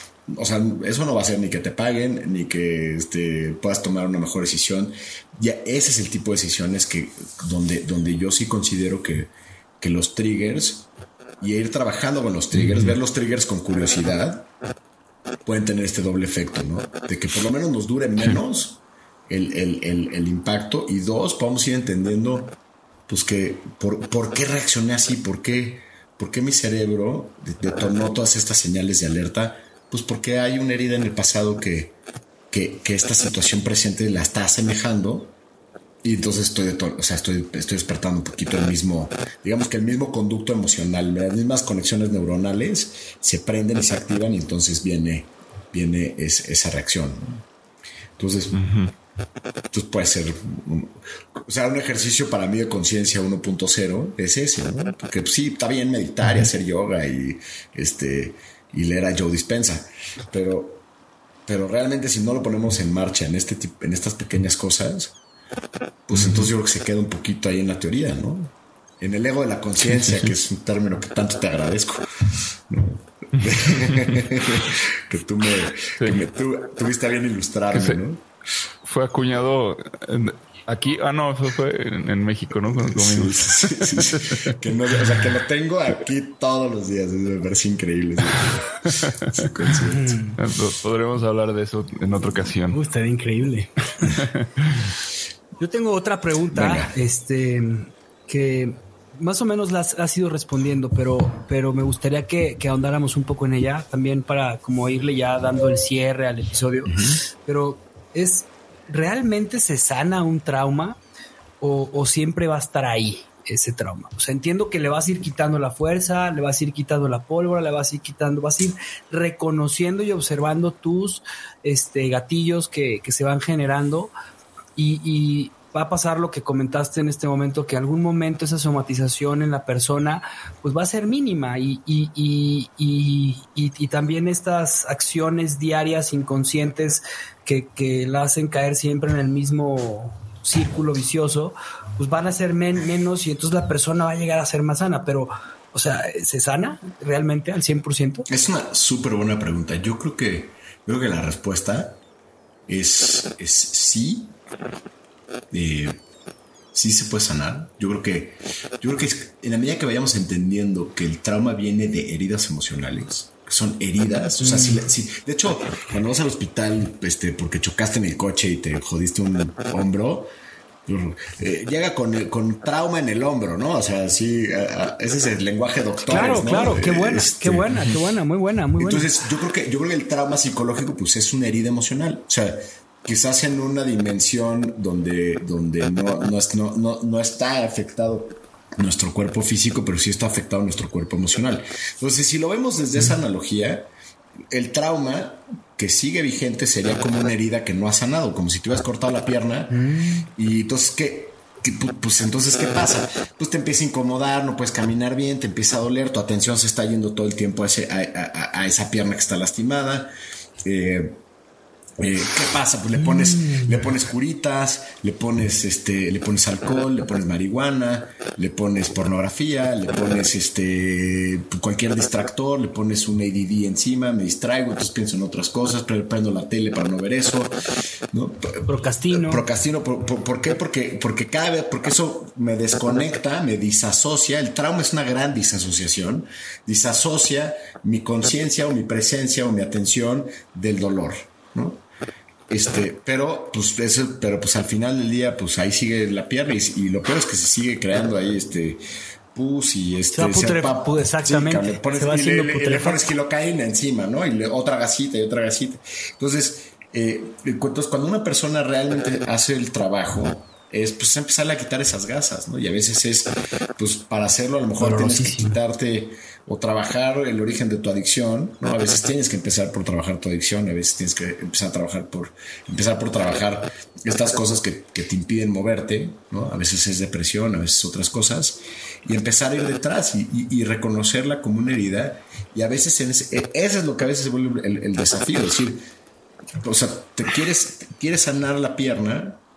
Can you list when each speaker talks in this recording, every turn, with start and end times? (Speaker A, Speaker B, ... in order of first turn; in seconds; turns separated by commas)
Speaker A: 0.3-10.9, Speaker A: 11.4-14.5, Speaker B: 12.5-13.0, Speaker A: 15.4-22.6, Speaker A: 23.1-32.0, Speaker A: 32.5-35.4, Speaker A: 36.0-47.5, Speaker A: 48.2-48.6, Speaker B: 48.5-48.9, Speaker A: 49.7-60.8, Speaker A: 61.5-65.2, Speaker A: 66.1-78.2, Speaker B: 66.1-66.5, Speaker B: 69.9-70.3, Speaker B: 77.7-78.0, Speaker B: 78.8-84.5, Speaker A: 82.8-90.2, Speaker B: 88.9-89.4, Speaker C: 89.9-90.4, Speaker B: 90.4-92.8, Speaker C: 92.7-94.2, Speaker B: 94.1-94.8, Speaker C: 95.6-111.0, Speaker A: 96.5-97.0, Speaker A: 106.9-107.2, Speaker C: 111.6-124.1, Speaker C: 124.8-148.3, Speaker A: 148.3-152.0, Speaker A: 152.7-154.4, Speaker A: 155.5-156.0, Speaker A: 156.7-170.3, Speaker C: 164.4-164.8, Speaker A: 170.9-177.7, Speaker C: 176.1-179.1, Speaker A: 178.8-193.9, Speaker A: 194.5-210.1, Speaker C: 199.7-200.3, Speaker A: 210.6-211.2, Speaker A: 212.0-227.5, Speaker A: 228.1-241.8, Speaker C: 228.6-229.4, Speaker A: 242.5-248.8, Speaker A: 249.3-285.8, Speaker C: 250.1-253.1, Speaker C: 264.8-265.6, Speaker A: 286.6-289.4